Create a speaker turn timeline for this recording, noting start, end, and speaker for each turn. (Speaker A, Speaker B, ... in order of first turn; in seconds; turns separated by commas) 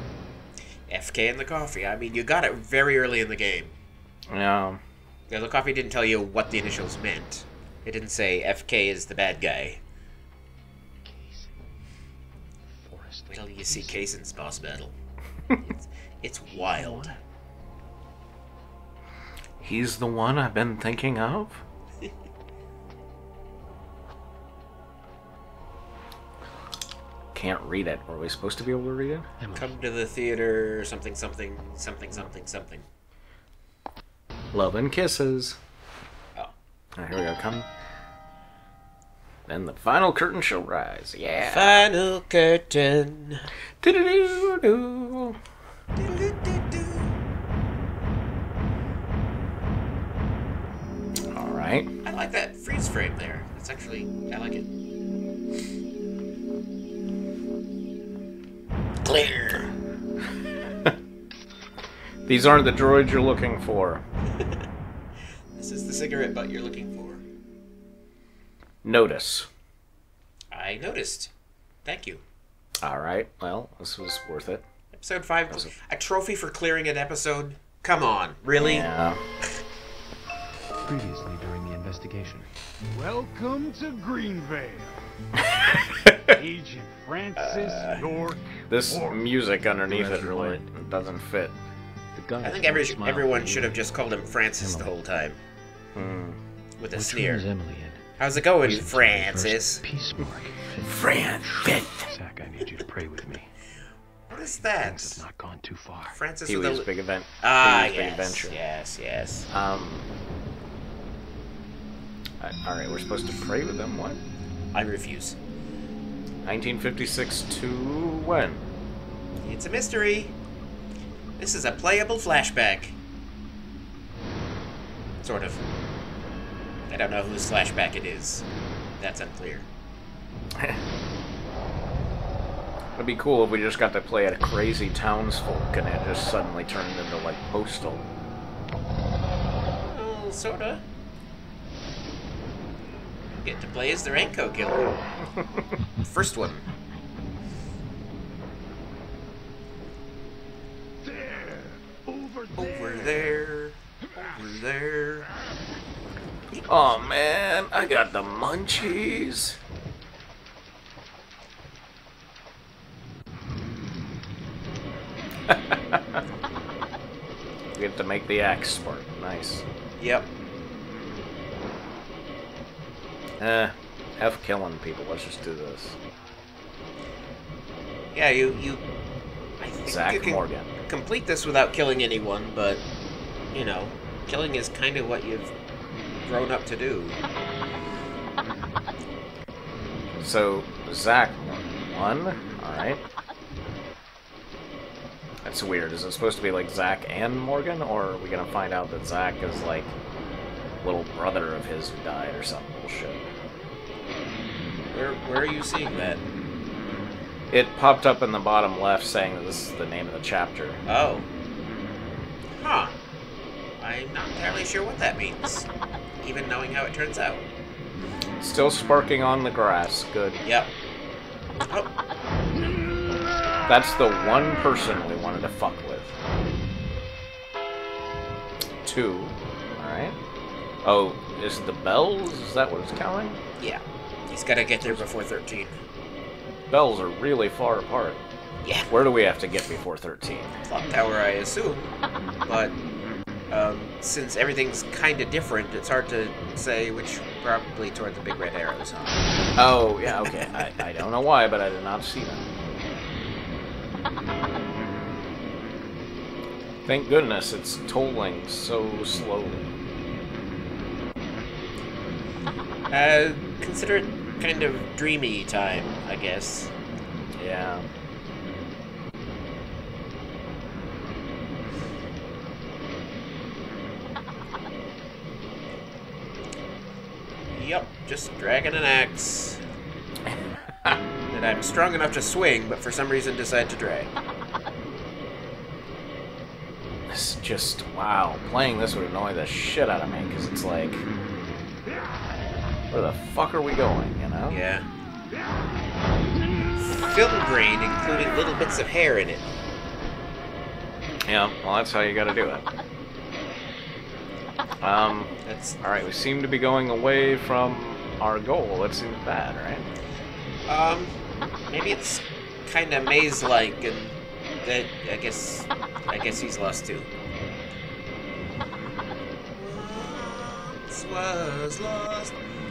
Speaker A: 0.9-3.7, Speaker B: 4.3-4.8, Speaker A: 5.3-9.8, Speaker C: 11.0-11.6, Speaker C: 12.6-14.1, Speaker A: 13.3-14.9, Speaker A: 15.6-17.1, Speaker C: 16.5-17.2, Speaker B: 19.6-21.6, Speaker B: 27.3-29.3, Speaker C: 29.4-29.7, Speaker A: 29.5-32.9, Speaker B: 34.5-35.6, Speaker B: 37.0-37.7, Speaker B: 39.5-41.9, Speaker A: 41.4-43.5, Speaker B: 43.8-45.4, Speaker A: 46.0-47.1, Speaker B: 51.3-51.9, Speaker A: 52.0-54.7, Speaker A: 59.0-59.7, Speaker B: 62.2-64.0, Speaker A: 64.3-64.6, Speaker A: 65.5-67.2, Speaker B: 68.8-69.5, Speaker A: 70.5-71.3, Speaker A: 71.8-72.2, Speaker B: 72.8-74.6, Speaker A: 74.9-78.9, Speaker B: 75.5-75.7, Speaker B: 78.6-79.2, Speaker C: 80.8-82.5, Speaker D: 82.9-85.0, Speaker B: 85.4-86.3, Speaker D: 86.2-89.2, Speaker A: 87.3-88.0, Speaker B: 88.7-91.6, Speaker C: 89.9-90.7, Speaker C: 92.1-94.9, Speaker A: 92.4-95.4, Speaker B: 95.9-96.4, Speaker A: 96.8-97.5, Speaker C: 96.9-103.5, Speaker A: 98.2-99.8, Speaker B: 100.8-102.1, Speaker A: 104.3-105.2, Speaker C: 104.3-106.2, Speaker A: 106.1-106.9, Speaker B: 106.5-108.6, Speaker A: 107.4-109.5, Speaker B: 109.5-110.1, Speaker B: 112.4-114.2, Speaker A: 114.7-115.4, Speaker B: 116.4-118.7, Speaker A: 119.4-120.4, Speaker A: 121.4-123.0, Speaker A: 125.2-125.6, Speaker A: 126.9-128.4, Speaker A: 129.0-129.7, Speaker B: 130.6-130.8, Speaker B: 132.9-138.0, Speaker A: 139.8-140.8, Speaker A: 143.3-145.0, Speaker A: 146.0-146.7, Speaker D: 151.1-152.7, Speaker A: 152.5-155.3, Speaker B: 156.7-159.6, Speaker B: 165.5-166.2, Speaker B: 167.7-169.6, Speaker A: 170.0-170.3, Speaker B: 173.4-176.0, Speaker A: 178.1-178.8, Speaker A: 179.6-182.8, Speaker B: 179.8-180.7, Speaker A: 183.5-185.5, Speaker A: 186.2-187.2, Speaker B: 190.2-193.0, Speaker B: 195.4-199.9, Speaker B: 200.8-203.2, Speaker A: 204.9-206.2, Speaker B: 207.5-210.8, Speaker A: 210.8-211.3, Speaker A: 212.5-212.9, Speaker A: 213.8-215.7, Speaker A: 216.2-217.4, Speaker B: 218.4-220.4, Speaker A: 220.4-220.7, Speaker B: 223.7-226.1, Speaker B: 228.8-230.2, Speaker B: 230.8-233.4, Speaker A: 233.6-235.8, Speaker B: 236.7-238.2, Speaker A: 238.6-238.9, Speaker B: 238.9-240.6, Speaker A: 240.6-241.9, Speaker A: 242.4-242.8, Speaker A: 243.5-249.2, Speaker B: 249.6-252.5, Speaker A: 250.1-250.7, Speaker B: 256.8-259.7, Speaker A: 262.9-266.7, Speaker B: 267.4-267.9, Speaker A: 277.5-279.6, Speaker B: 280.3-281.0, Speaker A: 281.3-284.1, Speaker B: 287.1-291.1, Speaker B: 292.9-294.6, Speaker A: 294.5-294.9, Speaker A: 296.8-299.5, Speaker B: 301.2-302.6, Speaker B: 304.8-309.9, Speaker A: 305.4-305.8, Speaker A: 310.7-311.1, Speaker A: 311.6-317.1, Speaker A: 319.5-322.4